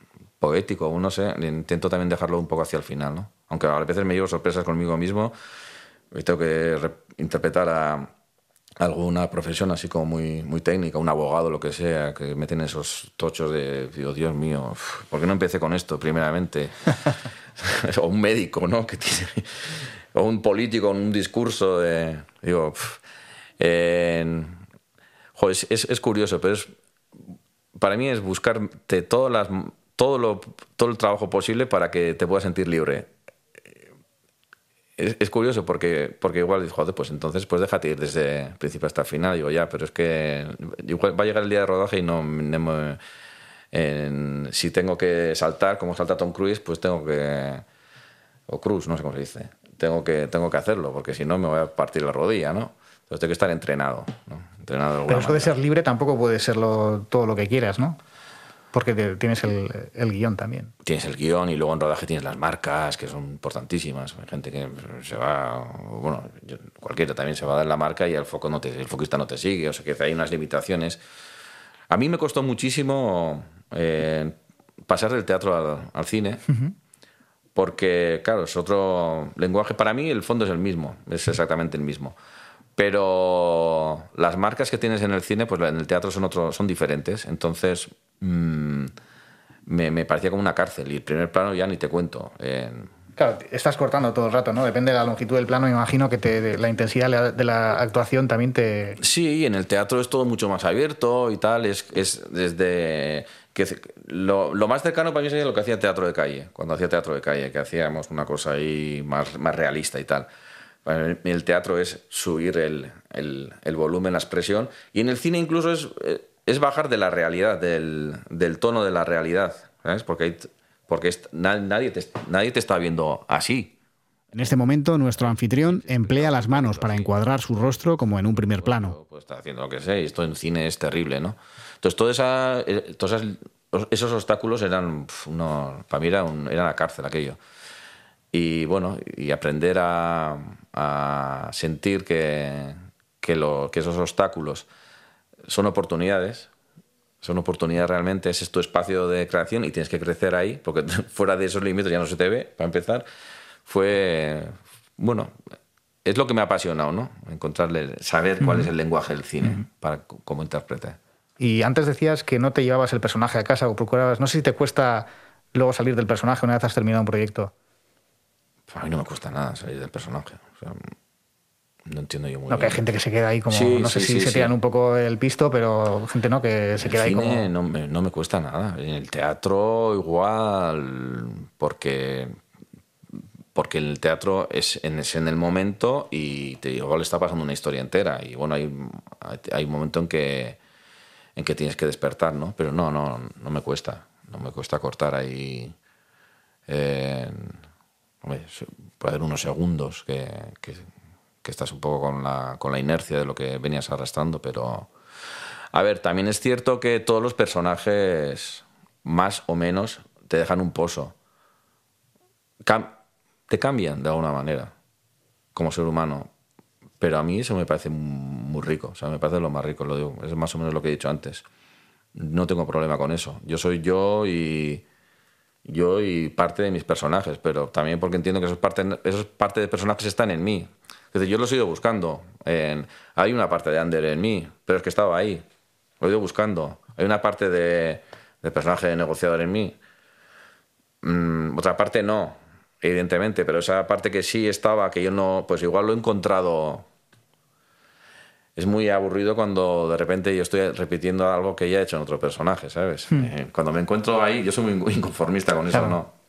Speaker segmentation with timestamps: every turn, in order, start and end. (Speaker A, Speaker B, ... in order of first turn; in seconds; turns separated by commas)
Speaker A: 0.4-5.3, Speaker A: 6.1-8.1, Speaker A: 8.8-23.0, Speaker A: 23.6-24.6, Speaker A: 25.4-26.7, Speaker A: 27.8-33.1, Speaker A: 35.0-43.0, Speaker A: 43.7-47.6, Speaker A: 48.5-55.5, Speaker B: 55.1-58.0, Speaker B: 58.7-60.7, Speaker A: 60.8-71.0, Speaker A: 71.9-76.4, Speaker A: 77.5-82.2, Speaker A: 82.8-88.9, Speaker A: 89.7-92.9, Speaker B: 93.2-99.0, Speaker A: 99.0-110.3, Speaker A: 110.8-123.7, Speaker C: 124.3-129.0, Speaker A: 125.2-127.1, Speaker A: 128.2-137.4, Speaker A: 138.3-144.7, Speaker A: 145.5-146.5, Speaker A: 147.2-153.1, Speaker A: 153.7-155.3, Speaker A: 156.1-161.0, Speaker B: 161.4-167.5, Speaker A: 168.7-170.9, Speaker A: 171.9-172.8, Speaker B: 172.5-177.5, Speaker A: 173.5-174.5, Speaker A: 176.8-182.4, Speaker A: 183.6-190.6, Speaker A: 191.4-195.8, Speaker A: 196.7-197.6, Speaker A: 198.2-200.9, Speaker A: 201.4-204.9, Speaker A: 205.7-211.1, Speaker A: 212.6-212.9, Speaker A: 213.5-214.7, Speaker A: 215.6-216.3, Speaker A: 217.0-221.4, Speaker A: 222.2-224.8, Speaker A: 225.7-235.4, Speaker A: 236.0-239.8, Speaker A: 241.0-246.9, Speaker A: 248.6-256.1, Speaker B: 255.7-256.0